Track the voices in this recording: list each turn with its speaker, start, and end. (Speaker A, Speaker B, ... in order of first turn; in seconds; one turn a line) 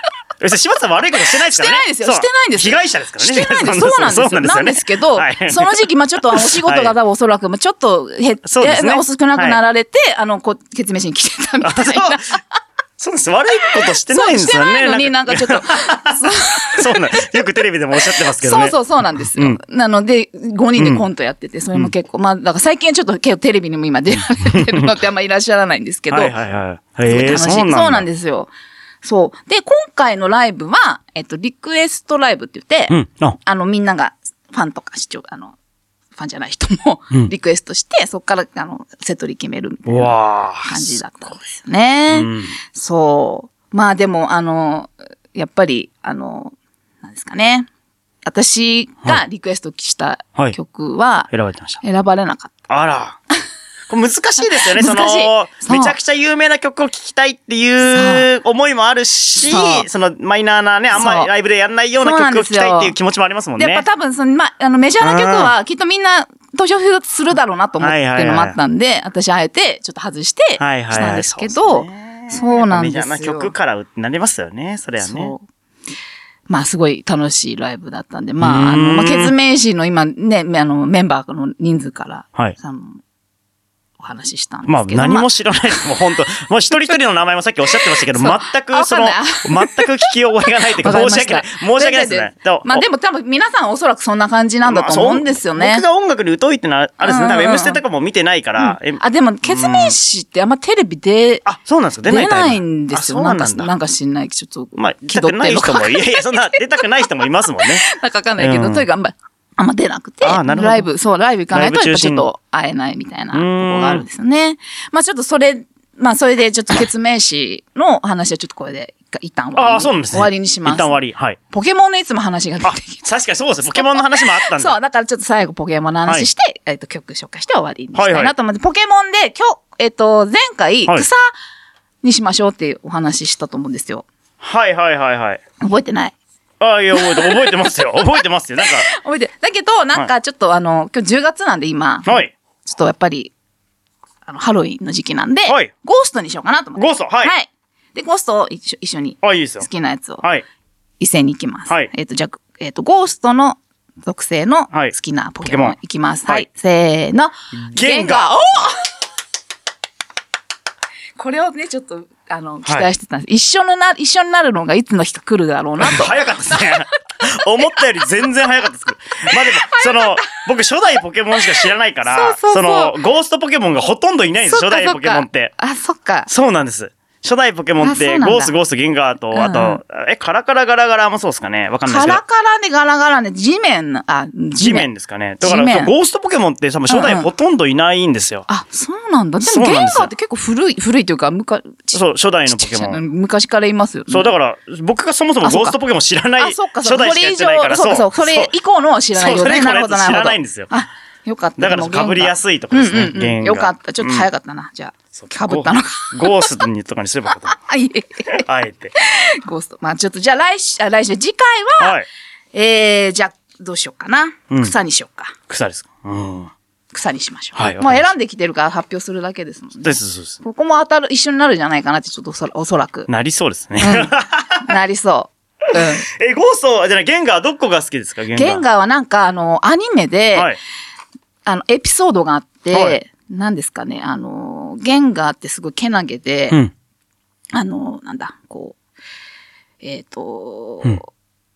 Speaker A: 0.4-6.9
Speaker B: 1.2-12.4
Speaker A: 8.4-9.6
Speaker A: 11.6-12.4
Speaker A: 13.0-18.8
Speaker B: 13.8-17.4
Speaker B: 18.0-26.3
Speaker A: 19.3-19.6
Speaker A: 20.8-21.0
Speaker A: 24.4-24.9
Speaker A: 26.1-28.1
Speaker B: 27.1-28.5
Speaker B: 29.0-35.5
Speaker A: 32.9-33.4
Speaker B: 36.1-47.7
Speaker A: 39.9-41.0
Speaker A: 42.1-42.6
Speaker B: 48.2-51.3
Speaker A: 51.3-51.8
Speaker B: 51.8-52.5
Speaker A: 52.7-53.2
Speaker A: 53.9-63.8
Speaker B: 54.4-55.9
Speaker B: 57.8-58.2
Speaker B: 59.4-59.9
Speaker B: 60.9-61.3
Speaker B: 62.0-62.9
Speaker B: 63.6-73.5
Speaker A: 65.0-65.5
Speaker A: 67.8-68.6
Speaker A: 70.6-75.3
Speaker B: 75.0-75.4
Speaker B: 76.5-83.0
Speaker A: 78.4-79.3
Speaker B: 84.0-85.3
Speaker A: 84.7-92.8
Speaker B: 87.9-89.9
Speaker B: 90.6-95.8
Speaker A: 94.7-100.0
Speaker B: 97.0-97.8
Speaker B: 98.6-101.4
Speaker A: 101.4-103.7
Speaker B: 102.1-106.6
Speaker A: 104.8-107.8
Speaker B: 107.6-120.9
Speaker A: 108.4-108.8
Speaker A: 110.2-110.9
Speaker A: 111.5-112.3
Speaker A: 113.3-114.0
Speaker A: 119.5-121.4
Speaker B: 121.5-123.0
Speaker A: 122.6-124.8
Speaker B: 123.7-131.3
Speaker A: 127.9-128.3
Speaker B: 132.0-134.1
Speaker A: 134.4-135.4
Speaker B: 135.6-136.1
Speaker A: 136.6-138.9
Speaker B: 136.9-137.7
Speaker B: 138.6-143.3
Speaker A: 142.1-142.3
Speaker B: 144.2-150.2
Speaker A: 145.4-145.7
Speaker A: 146.8-147.3
Speaker A: 149.2-149.7
Speaker B: 151.0-158.9
Speaker A: 154.7-155.8
Speaker A: 157.6-158.3
Speaker B: 161.2-166.8
Speaker A: 165.8-175.5
Speaker B: 169.3-170.3
Speaker B: 171.4-172.9
Speaker B: 174.4-176.3
Speaker A: 176.3-182.2
Speaker B: 177.8-178.5
Speaker B: 179.3-179.8
Speaker B: 181.8-184.9
Speaker A: 184.6-188.4
Speaker B: 185.4-185.9
Speaker B: 186.9-187.3
Speaker B: 188.5-194.3
Speaker A: 189.4-190.1
Speaker A: 191.9-193.0
Speaker A: 194.1-198.5
Speaker B: 195.4-195.8
Speaker B: 196.4-206.6
Speaker A: 199.1-200.7
Speaker A: 201.6-204.3
Speaker A: 205.1-207.6
Speaker B: 207.4-208.4
Speaker A: 208.3-208.9
Speaker B: 208.9-211.9
Speaker A: 211.8-212.1
Speaker B: 212.5-215.3
Speaker A: 215.5-216.5
Speaker B: 216.9-223.1
Speaker A: 217.5-218.1
Speaker A: 219.8-220.4
Speaker A: 223.1-224.7
Speaker B: 223.8-224.1
Speaker B: 224.6-226.1
Speaker A: 226.1-228.6
Speaker B: 228.3-230.5
Speaker B: 231.4-236.6
Speaker B: 237.5-238.8
Speaker B: 239.8-241.1